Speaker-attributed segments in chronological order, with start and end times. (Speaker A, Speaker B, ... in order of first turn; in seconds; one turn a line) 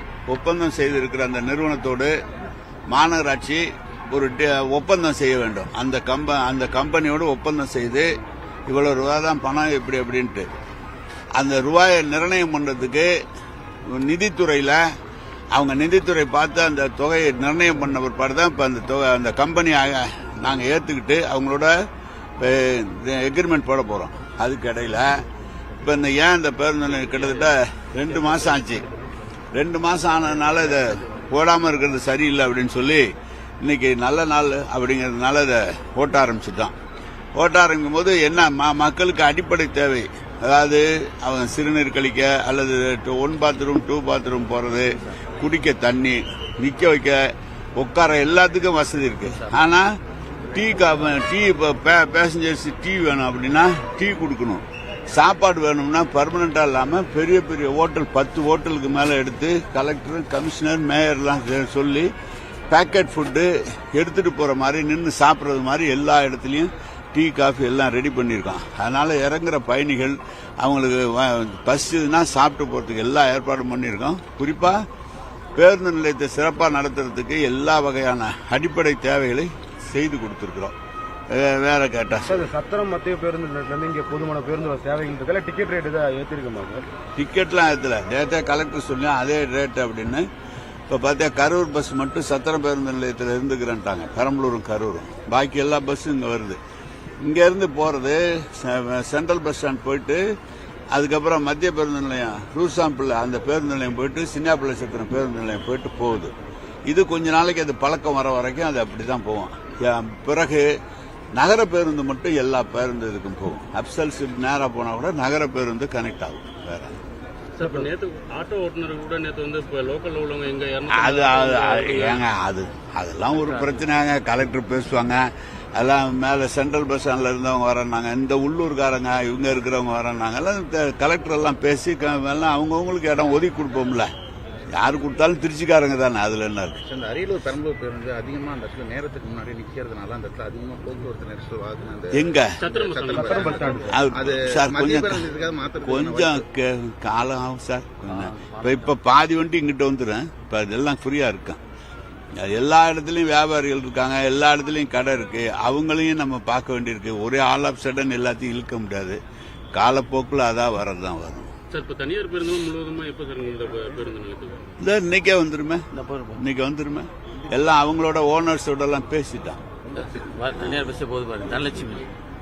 Speaker A: 0.3-2.1
Speaker A: 2.9-8.1
Speaker A: 8.7-10.5
Speaker A: 11.3-13.1
Speaker A: 13.9-14.9
Speaker A: 15.5-21.7
Speaker A: 22.4-25.3
Speaker A: 25.8-28.9
Speaker A: 29.5-33.1
Speaker A: 33.6-36.7
Speaker A: 37.4-50.0
Speaker A: 50.5-62.1
Speaker A: 62.7-74.8
Speaker A: 75.5-80.7
Speaker A: 81.3-82.5
Speaker B: 82.2-86.9
Speaker A: 87.2-90.3
Speaker A: 90.9-96.6
Speaker A: 97.2-100.2
Speaker A: 100.9-106.3
Speaker A: 106.9-110.7
Speaker A: 111.3-117.0
Speaker C: 117.5-122.2
Speaker A: 120.9-134.1
Speaker D: 123.4-123.8
Speaker A: 134.7-136.8
Speaker E: 136.8-146.4
Speaker A: 142.1-142.6
Speaker C: 142.6-143.7
Speaker B: 143.1-144.0
Speaker A: 143.9-145.2
Speaker A: 145.8-151.6
Speaker D: 148.1-148.9
Speaker A: 152.3-159.2
Speaker A: 159.7-161.5
Speaker C: 161.7-164.7
Speaker A: 164.8-165.8
Speaker D: 165.9-166.4
Speaker A: 166.4-169.6
Speaker D: 169.9-172.1